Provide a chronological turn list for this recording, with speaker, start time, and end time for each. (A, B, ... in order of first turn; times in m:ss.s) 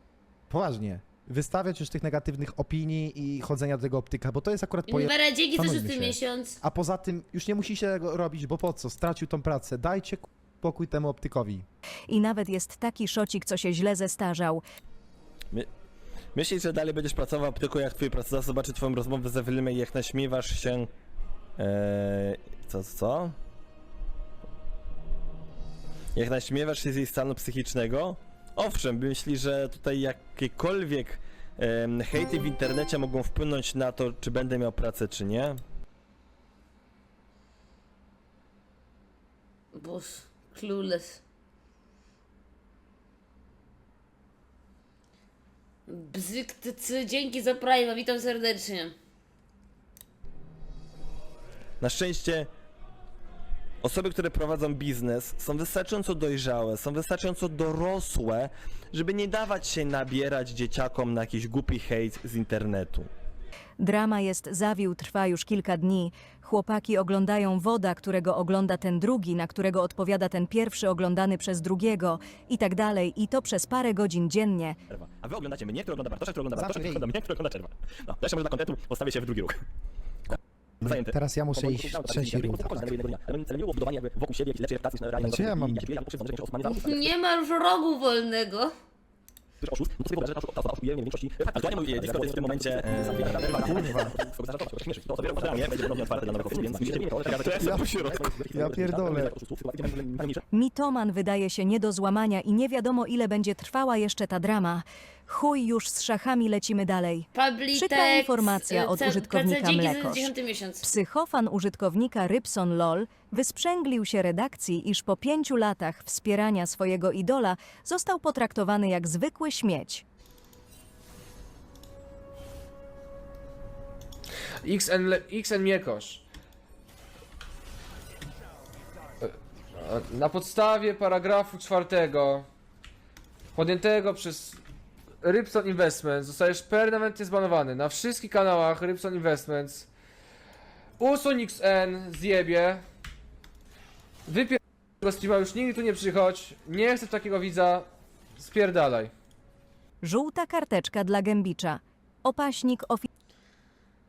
0:00.5-0:11.6 A
0:04.9-0:06.6 B
0:12.1-0:14.6 C
0:16.3-0:20.9 D
0:21.6-0:23.3 D
0:26.1-0:35.6 D
0:39.7-0:41.2 B
0:45.9-0:49.0 B
0:51.8-0:52.5 D
0:53.8-1:03.1 D
1:03.8-1:14.8 C
1:14.9-1:19.6 D
1:16.5-1:17.1 A
1:20.8-1:23.0 A
1:20.8-1:26.8 D
1:25.2-1:25.9 A
1:26.6-1:28.7 B
1:29.6-1:40.4 D
1:33.4-1:34.2 A
1:37.3-1:39.4 A
1:40.5-2:00.0 C
1:47.3-1:50.9 B
2:04.6-2:06.2 E
2:09.2-2:12.4 E
2:13.5-2:14.6 E
2:15.2-2:19.9 E
2:21.0-2:22.8 E
2:24.3-2:29.1 E
2:30.0-2:33.1 C